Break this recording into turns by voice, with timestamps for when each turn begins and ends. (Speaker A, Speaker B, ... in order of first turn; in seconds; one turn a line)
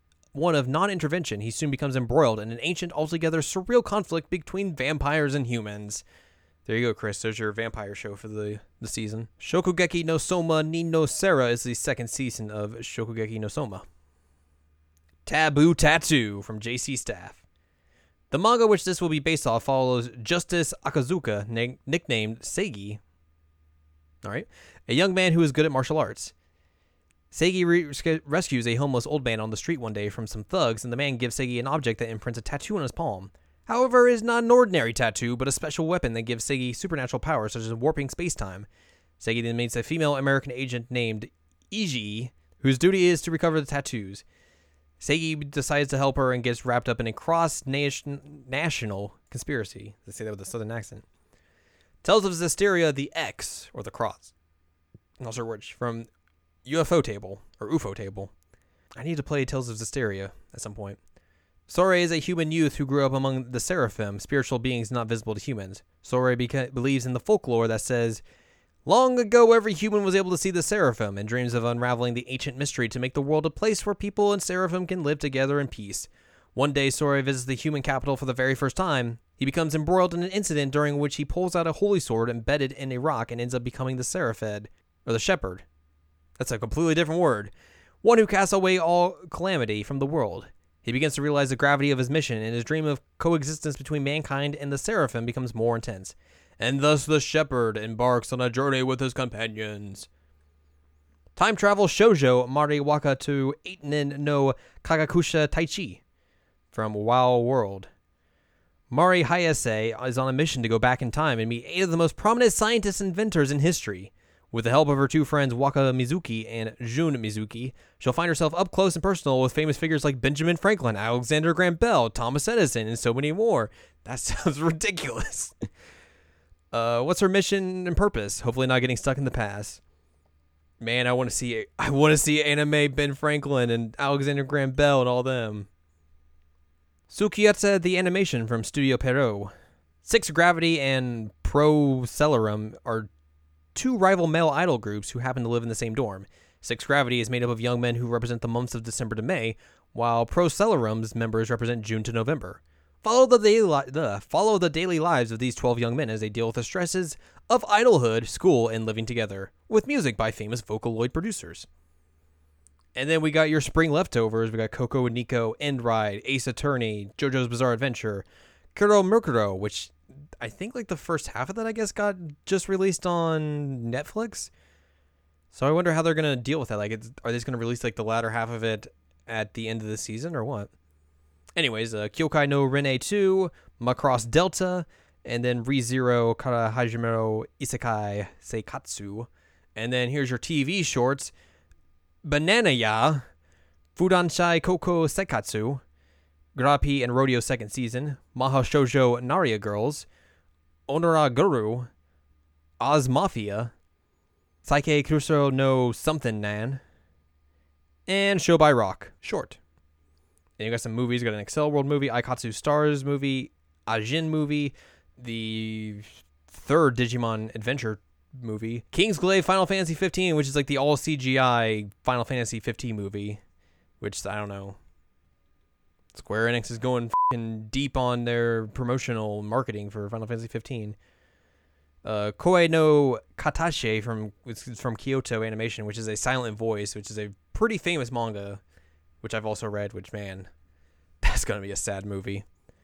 Speaker A: 0.3-6.0
Speaker A: 6.7-13.8
Speaker A: 15.3-17.4
Speaker A: 18.3-23.0
Speaker A: 24.2-26.3
Speaker A: 27.3-38.7
Speaker A: 39.2-44.2
Speaker A: 45.0-51.0
Speaker A: 52.0-54.3
Speaker A: 55.2-56.1
Speaker A: 56.6-58.3
Speaker A: 59.0-61.0
Speaker A: 61.7-68.2
Speaker A: 68.9-85.7
Speaker A: 86.4-87.5
Speaker A: 88.0-100.1
Speaker A: 101.4-106.0
Speaker A: 106.7-107.9
Speaker A: 108.9-125.5
Speaker A: 126.7-129.8
Speaker A: 130.8-135.7
Speaker A: 137.1-139.5
Speaker A: 140.0-143.1
Speaker A: 143.8-161.7
Speaker A: 163.0-174.5
Speaker A: 175.5-180.7
Speaker A: 181.6-191.3
Speaker A: 192.2-193.2
Speaker A: 194.0-195.8
Speaker A: 196.6-200.1
Speaker A: 200.9-201.9
Speaker A: 202.8-203.7
Speaker A: 204.6-206.8
Speaker A: 208.1-209.6
Speaker A: 210.6-223.4
Speaker A: 224.0-224.8
Speaker A: 226.1-231.0
Speaker A: 232.0-238.6
Speaker A: 239.2-240.5
Speaker A: 241.2-242.4